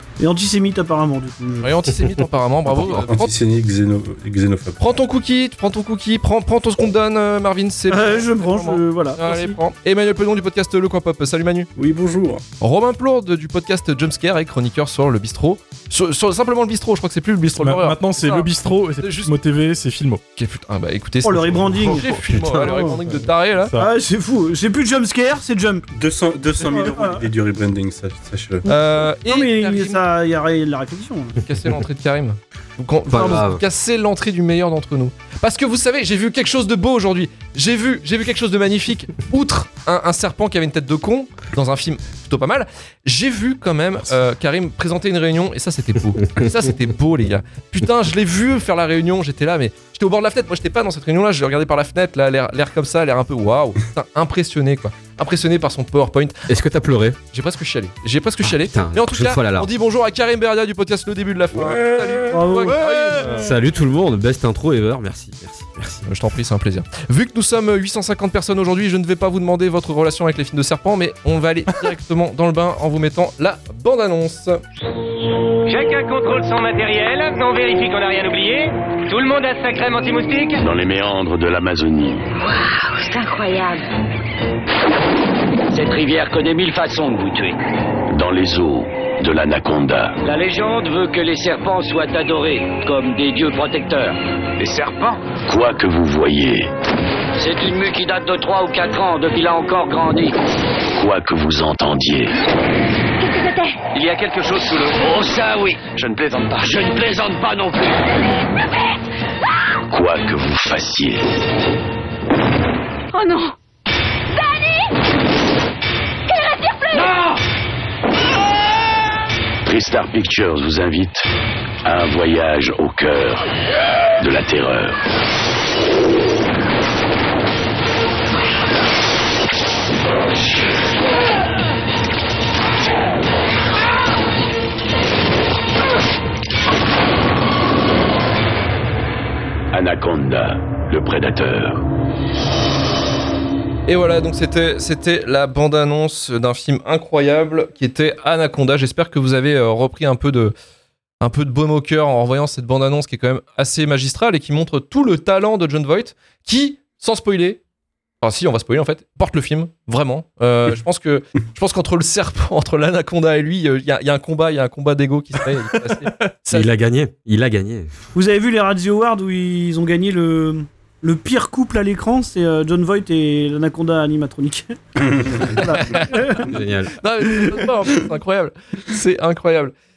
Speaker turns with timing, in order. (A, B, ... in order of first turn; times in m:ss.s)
0:00.2-0:01.7 A
0:01.6-0:03.3 B
0:02.7-0:04.8 C
0:04.8-0:11.7 B
0:07.9-0:09.6 A
0:11.8-0:12.4 C
0:12.6-0:19.3 B
0:17.5-0:20.2 D
0:20.4-0:23.7 B
0:21.2-0:22.2 A
0:22.2-0:22.7 D
0:22.6-0:23.2 C
0:23.6-0:23.9 D
0:23.8-0:25.8 A
0:25.9-0:28.6 C
0:26.6-0:27.2 A
0:28.7-0:30.0 B
0:28.7-0:31.4 A
0:31.4-0:56.4 B
0:33.1-0:33.6 E
0:56.5-0:57.2 E
0:57.3-1:03.5 B
0:58.4-0:59.7 E
1:02.3-1:03.5 A
1:02.7-1:03.4 D
1:03.4-1:06.1 E
1:06.0-1:14.6 B
1:15.7-1:20.6 F
1:20.6-1:22.3 G
1:23.1-1:23.8 H
1:25.7-1:27.6 I
1:28.1-1:30.2 G
1:30.2-1:35.2 I
1:35.5-1:36.7 G
1:37.4-1:40.3 I
1:41.0-1:42.3 G
1:43.2-1:43.8 H
1:43.9-1:48.0 I
1:49.9-1:51.2 G
1:53.1-1:53.5 H
1:54.3-1:54.9 H
1:56.3-1:57.1 H
1:59.6-2:01.2 G
2:01.8-2:03.4 G
2:04.2-2:05.0 G
2:19.7-2:21.8 G
2:23.9-2:30.5 B
2:31.2-2:37.6 B
2:38.2-2:46.7 B
2:46.5-2:47.9 E
2:48.1-2:56.5 A
2:55.6-2:56.1 B
2:56.4-2:57.0 E
2:57.0-2:59.7 B